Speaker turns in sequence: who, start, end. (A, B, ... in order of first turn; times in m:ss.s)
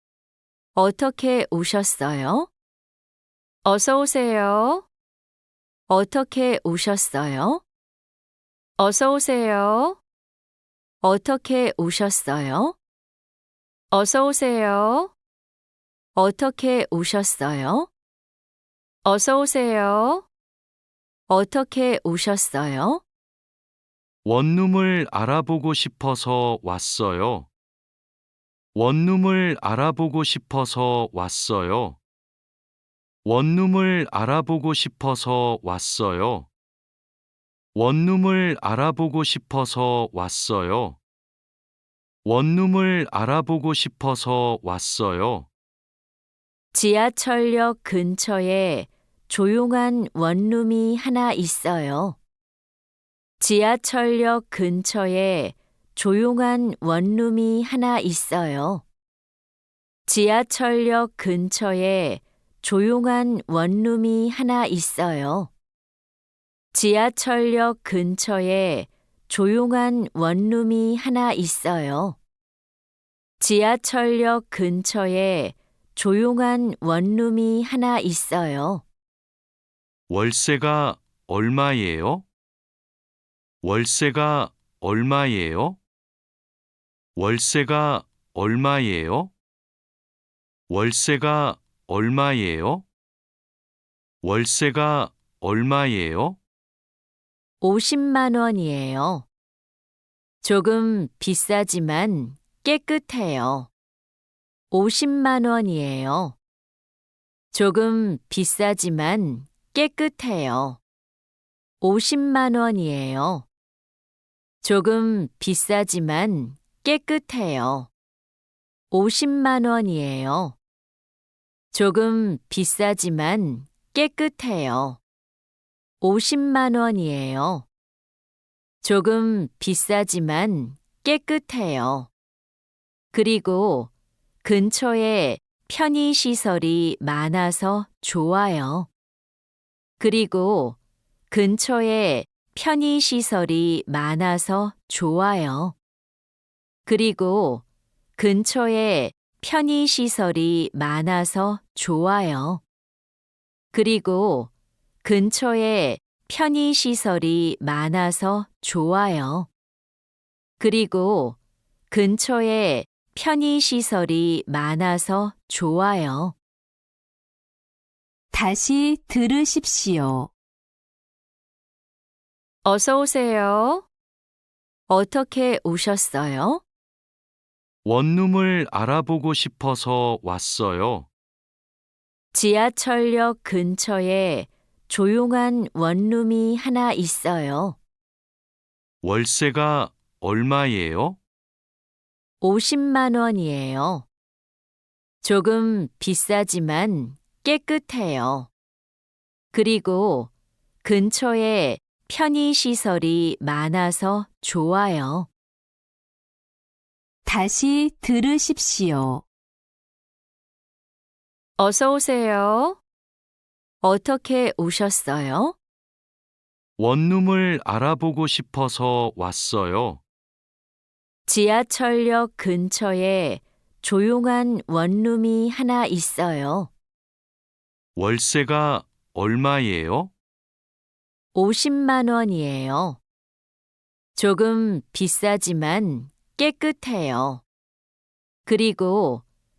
0:00.8-0:02.5 A
0:03.6-0:04.9 A
0:05.9-0:07.6 A
0:08.8-0:10.0 A
0:11.0-0:12.8 A
0:13.9-0:15.1 A
0:16.2-0:17.9 A
0:19.0-0:20.3 A
0:21.3-0:23.0 A
0:24.2-0:27.5 B
0:28.8-0:32.0 B
0:33.2-0:36.5 B
0:37.8-0:41.0 B
0:42.2-0:45.5 B
0:46.7-0:52.2 A
0:53.4-0:58.8 A
1:00.1-1:05.5 A
1:06.7-1:12.2 A
1:13.4-1:18.8 A
1:20.1-1:22.3 B
1:23.6-1:25.8 B
1:27.2-1:29.3 B
1:30.7-1:32.9 B
1:34.2-1:36.4 B
1:37.6-1:39.3 A
1:40.4-1:43.7 A
1:44.7-1:46.4 A
1:47.5-1:50.8 A
1:51.8-1:53.5 A
1:54.6-1:57.9 A
1:58.9-2:00.6 A
2:01.7-2:05.0 A
2:06.0-2:07.7 A
2:08.8-2:12.1 A
2:13.1-2:13.9 A
2:14.4-2:18.9 A
2:20.0-2:20.8 A
2:21.3-2:25.8 A
2:26.9-2:27.6 A
2:28.2-2:32.6 A
2:33.7-2:34.5 A
2:35.0-2:39.5 A
2:40.6-2:41.4 A
2:41.9-2:46.4 A
2:48.3-2:50.3 C
2:52.6-2:53.9 A
2:54.9-2:56.6 A
2:57.8-3:01.1 B
3:02.3-3:07.8 A
3:09.0-3:11.2 B
3:12.4-3:14.1 A
3:15.2-3:18.5 A
3:19.5-3:20.3 A
3:20.8-3:25.3 A
3:27.3-3:29.2 C
3:31.6-3:32.8 A
3:33.8-3:35.6 A
3:36.8-3:40.0 B
3:41.3-3:46.7 A
3:48.0-3:50.1 B
3:51.3-3:53.0 A
3:54.2-3:57.4 A
3:58.4-3:59.2 A